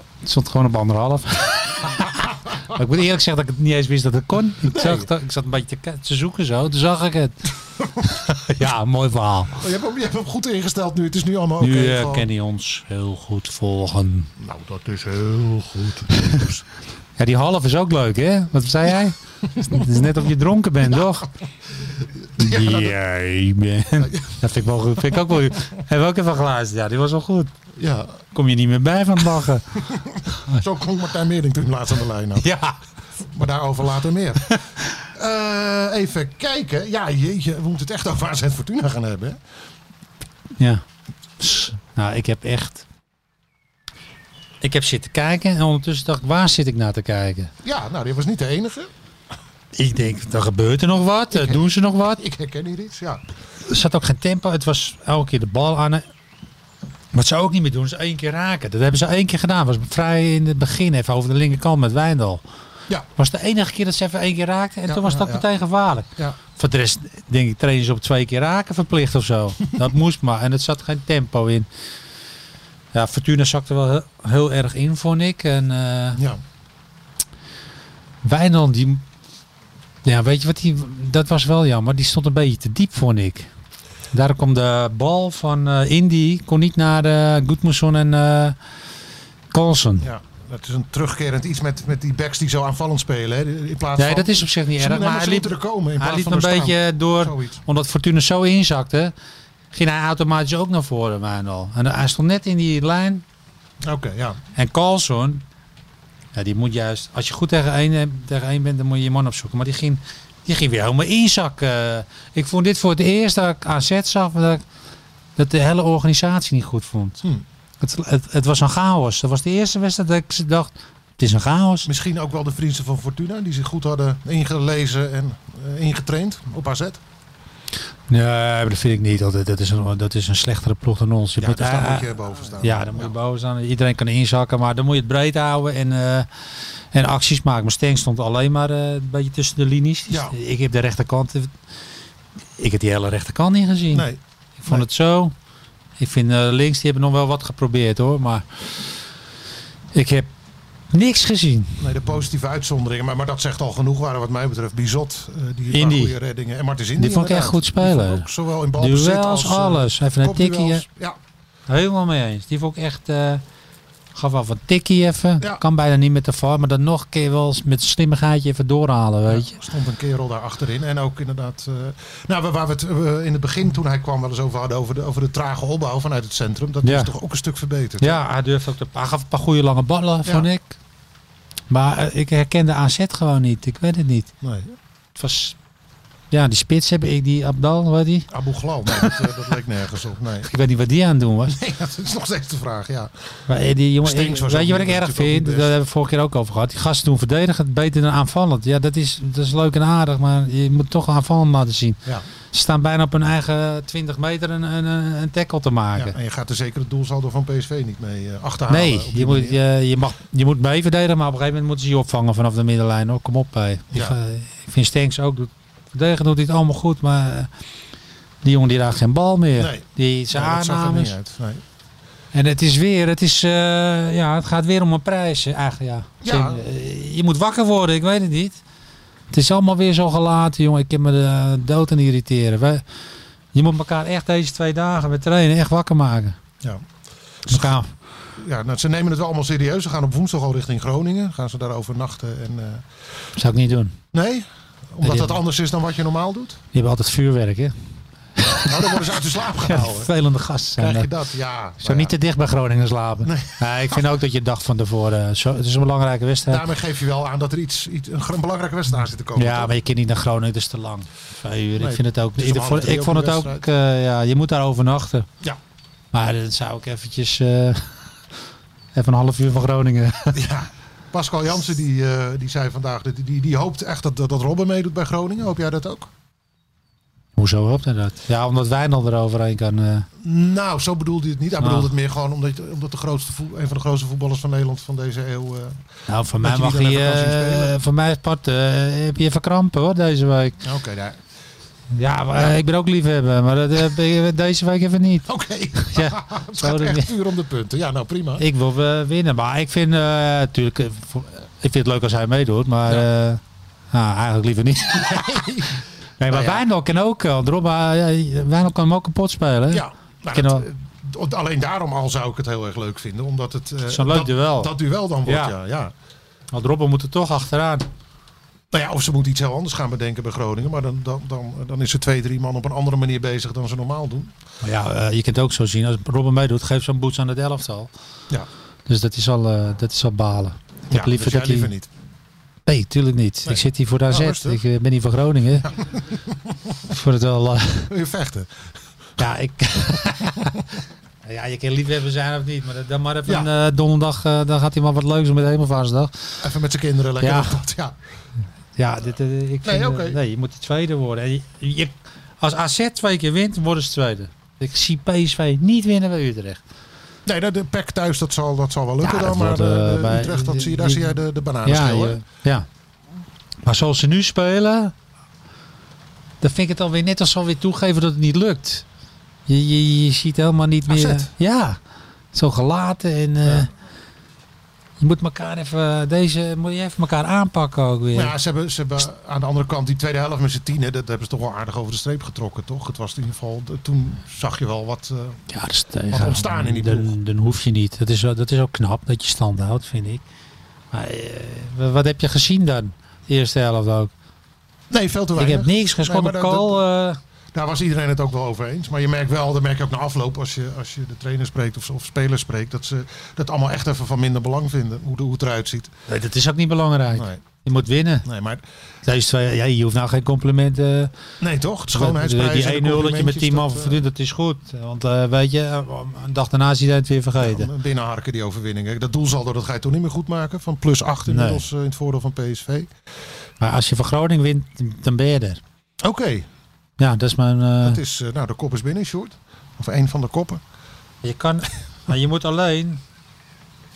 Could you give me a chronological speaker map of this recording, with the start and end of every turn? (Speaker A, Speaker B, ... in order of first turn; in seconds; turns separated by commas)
Speaker A: 0.2-9.6, Speaker B: 4.6-5.1, Speaker B: 9.6-12.2, Speaker A: 11.6-14.3, Speaker B: 14.4-16.6, Speaker A: 16.2-16.4, Speaker A: 17.2-21.3, Speaker B: 19.5-20.0, Speaker B: 22.4-22.9, Speaker A: 22.4-27.5, Speaker B: 24.0-24.4, Speaker B: 27.8-28.2, Speaker A: 28.3-29.8, Speaker B: 29.9-32.5, Speaker A: 32.4-32.8, Speaker B: 33.3-34.5, Speaker B: 35.1-39.4, Speaker A: 41.4-42.8, Speaker A: 44.6-47.5, Speaker B: 47.6-48.9, Speaker A: 49.7-52.2, Speaker B: 51.3-53.2, Speaker A: 53.7-56.0, Speaker A: 57.1-62.4, Speaker A: 63.1-71.7, Speaker B: 64.8-65.5, Speaker A: 72.9-76.2, Speaker B: 76.2-76.4, Speaker A: 78.2-79.0, Speaker A: 80.0-83.5, Speaker A: 84.1-88.5, Speaker A: 89.5-90.1, Speaker B: 90.0-97.6, Speaker A: 94.0-99.1, Speaker A: 99.7-103.2, Speaker B: 103.8-104.4, Speaker A: 104.5-105.4, Speaker A: 106.3-114.6, Speaker A: 115.4-117.2, Speaker A: 117.8-121.9, Speaker B: 121.8-127.0, Speaker A: 128.1-136.3, Speaker B: 131.4-133.1, Speaker A: 136.9-141.5, Speaker B: 140.1-140.4, Speaker A: 142.6-144.1, Speaker B: 143.9-144.8, Speaker A: 144.6-145.3, Speaker A: 146.0-149.0, Speaker A: 149.9-150.3, Speaker A: 150.9-151.8, Speaker B: 151.8-161.2, Speaker A: 155.7-156.1, Speaker A: 157.0-160.8, Speaker A: 161.7-163.4, Speaker A: 164.1-169.6, Speaker B: 169.3-178.2, Speaker A: 176.8-177.1, Speaker A: 178.0-180.8, Speaker A: 181.7-184.3, Speaker B: 184.4-184.8, Speaker A: 185.2-185.6, Speaker A: 186.3-188.3, Speaker B: 188.3-190.5, Speaker A: 188.9-189.2, Speaker A: 190.4-191.6, Speaker B: 191.5-193.4, Speaker A: 193.5-202.0, Speaker B: 194.0-195.7, Speaker A: 202.5-206.2, Speaker B: 205.9-209.6, Speaker A: 208.7-217.5, Speaker B: 213.9-214.2, Speaker A: 218.4-221.2, Speaker B: 219.6-221.6, Speaker A: 222.3-228.6, Speaker B: 226.2-226.6, Speaker A: 229.3-232.8, Speaker A: 233.5-236.4, Speaker B: 237.4-237.8, Speaker A: 237.5-237.9, Speaker B: 238.3-242.8, Speaker A: 243.3-244.0, Speaker B: 244.1-246.6, Speaker A: 245.0-245.4, Speaker A: 246.7-247.7, Speaker A: 248.4-248.9, Speaker B: 248.6-250.1, Speaker A: 249.6-251.1, Speaker B: 250.8-252.1, Speaker A: 251.8-256.6, Speaker B: 253.2-254.0, Speaker B: 256.5-259.7, Speaker A: 259.4-265.3, Speaker B: 261.8-263.6, Speaker A: 266.1-268.0, Speaker A: 268.9-270.4, Speaker B: 270.3-276.1, Speaker A: 277.4-280.1, Speaker B: 280.2-285.8, Speaker A: 281.6-281.9, Speaker A: 286.1-290.6, Speaker B: 286.4-287.7, Speaker B: 290.6-291.2, Speaker A: 291.9-297.1, Speaker B: 295.2-298.4, Speaker A: 298.4-303.4, Speaker A: 303.9-305.5, Speaker B: 304.9-306.6, Speaker A: 306.2-310.7, Speaker B: 309.7-315.9, Speaker A: 313.9-314.7, Speaker A: 315.2-315.5, Speaker A: 316.5-317.9, Speaker B: 318.7-324.3, Speaker A: 324.6-327.9, Speaker A: 328.9-331.7, Speaker B: 330.9-331.9, Speaker A: 332.6-335.7, Speaker B: 333.4-334.6, Speaker B: 335.6-336.7, Speaker A: 336.9-337.9, Speaker B: 337.9-338.6, Speaker A: 339.2-340.7, Speaker A: 341.2-346.1, Speaker B: 346.4-348.0, Speaker A: 347.2-347.6, Speaker A: 348.8-356.6, Speaker B: 349.6-350.2, Speaker B: 357.2-362.2, Speaker A: 359.0-362.7, Speaker A: 363.6-364.9, Speaker A: 366.4-368.8, Speaker A: 369.5-371.8, Speaker B: 370.9-371.3, Speaker A: 372.3-373.7, Speaker A: 375.0-378.3, Speaker B: 378.1-385.4, Speaker A: 385.5-390.2, Speaker B: 386.1-387.1, Speaker A: 390.9-394.1, Speaker B: 394.9-396.8, Speaker A: 395.4-397.2, Speaker B: 397.5-405.9, Speaker A: 406.1-408.2, Speaker B: 407.1-407.4, Speaker B: 408.2-408.6, Speaker A: 409.0-411.1, Speaker B: 411.4-414.0, Speaker A: 411.9-417.7, Speaker B: 417.4-422.9, Speaker A: 421.3-421.6, Speaker A: 423.6-425.6, Speaker B: 426.0-426.5, Speaker A: 427.0-428.0, Speaker B: 427.8-430.6, Speaker A: 431.2-433.0